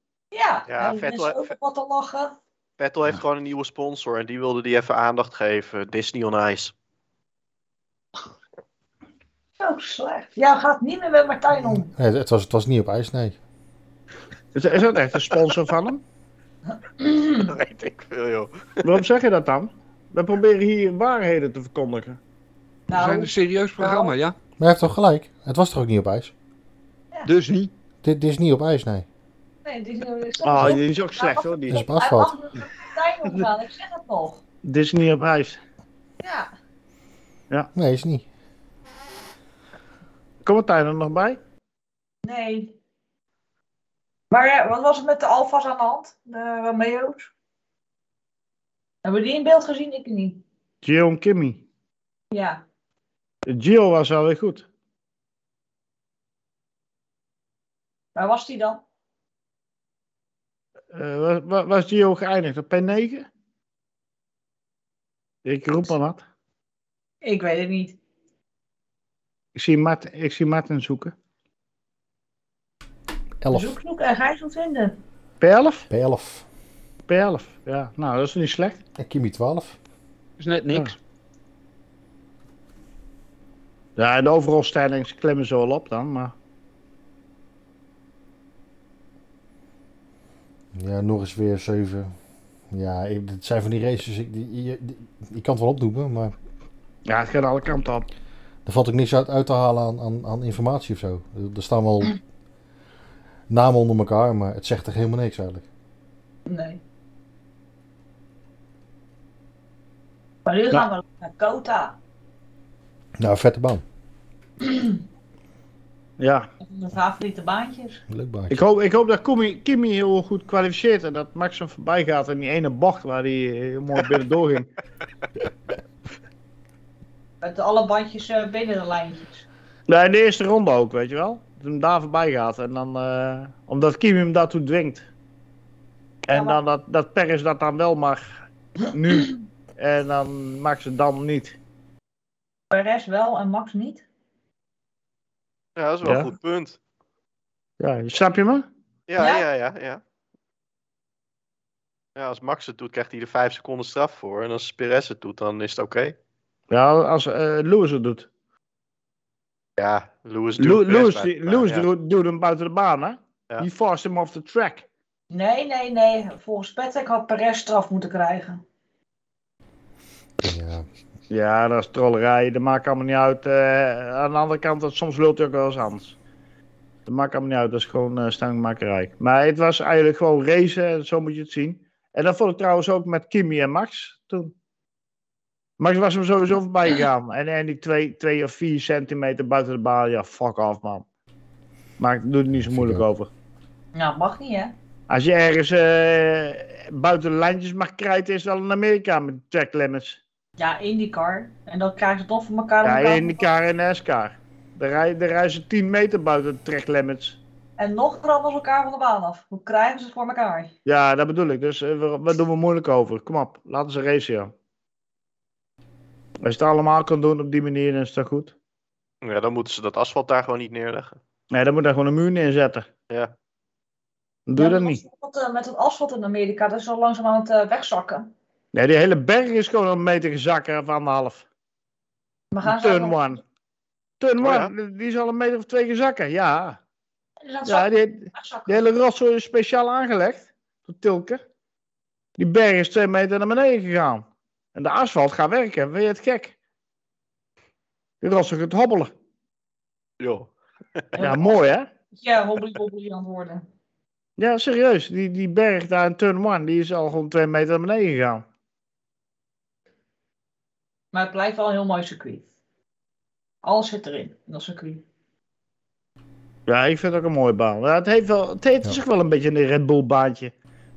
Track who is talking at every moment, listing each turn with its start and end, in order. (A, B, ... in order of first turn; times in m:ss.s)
0:00.3-0:02.4 A
0:00.7-0:01.5 B
0:02.8-0:06.7 B
0:09.6-0:11.9 A
0:11.6-0:13.4 C
0:14.5-0:16.0 D
0:17.0-0:17.5 A
0:17.4-0:18.9 B
0:18.8-0:22.2 D
0:22.9-0:24.2 A
0:22.9-0:24.4 E
0:24.6-0:26.3 C
0:27.3-0:27.7 E
0:28.0-0:29.1 C
0:29.6-0:34.4 A
0:30.4-0:31.8 D
0:31.7-0:32.4 C
0:34.6-0:35.6 D
0:36.2-0:36.5 A
0:37.8-0:38.2 C
0:40.4-0:41.4 D
0:42.2-0:42.7 A
0:44.3-0:47.3 A
0:49.0-0:50.4 A
0:50.8-0:51.6 D
0:52.3-0:52.6 A
0:53.5-0:54.7 D
0:58.2-0:58.8 A
1:00.9-1:03.3 D
1:05.4-1:06.2 D
1:07.2-1:08.0 A
1:09.6-1:11.1 D
1:13.4-1:13.8 C
1:13.5-1:15.0 A
1:15.4-1:15.9 D
1:15.9-1:16.4 C
1:17.1-1:18.8 D
1:19.0-1:19.8 C
1:20.4-1:21.0 E
1:24.0-1:26.4 D
1:30.8-1:32.1 C
1:32.7-1:36.4 C
1:37.1-1:38.1 D
1:38.6-1:42.2 C
1:43.5-1:45.6 C
1:46.5-1:46.8 A
1:50.5-1:52.0 A
1:53.2-1:53.8 C
1:54.6-1:55.0 A
1:56.2-1:56.5 D
1:56.6-1:58.0 A
1:58.1-1:58.6 C
1:58.5-2:04.7 D
2:07.4-2:09.5 A
2:09.9-2:15.1 D
2:16.3-2:21.6 D
2:16.3-2:16.6 A
2:22.7-2:24.0 A
2:25.8-2:26.8 B
2:26.0-2:26.3 D
2:27.8-2:28.7 D
2:29.1-2:30.0 B
2:29.2-2:29.4 A
2:32.2-2:36.2 B
2:36.7-2:38.3 D
2:39.8-2:41.9 B
2:40.6-2:44.9 D
2:45.3-2:48.6 A
2:50.4-2:50.9 C
2:51.3-2:56.2 D
2:57.1-3:04.5 D
3:05.8-3:11.0 D
3:12.0-3:13.3 D
3:12.5-3:13.0 C
3:14.0-3:14.8 A
3:15.1-3:20.2 D
3:20.6-3:23.4 A
3:22.8-3:27.4 D
3:27.8-3:30.7 A
3:30.8-3:34.5 D
3:36.4-3:38.5 D
3:39.2-3:41.2 B
3:41.5-3:42.9 D
3:44.5-3:45.0 D
3:44.6-3:48.3 A
3:48.7-3:51.4 D
3:52.5-3:53.2 A
3:52.6-3:53.4 D
3:54.2-3:56.8 D
3:54.4-3:54.7 B
3:57.4-3:58.8 A
3:57.7-4:01.4 D
4:02.4-4:06.6 D
4:08.2-4:09.1 D
4:10.2-4:10.5 B
4:11.2-4:11.6 A
4:11.2-4:11.9 D
4:12.1-4:13.7 A
4:14.4-4:18.4 D
4:21.1-4:22.4 A
4:23.6-4:25.0 A
4:26.7-4:30.5 D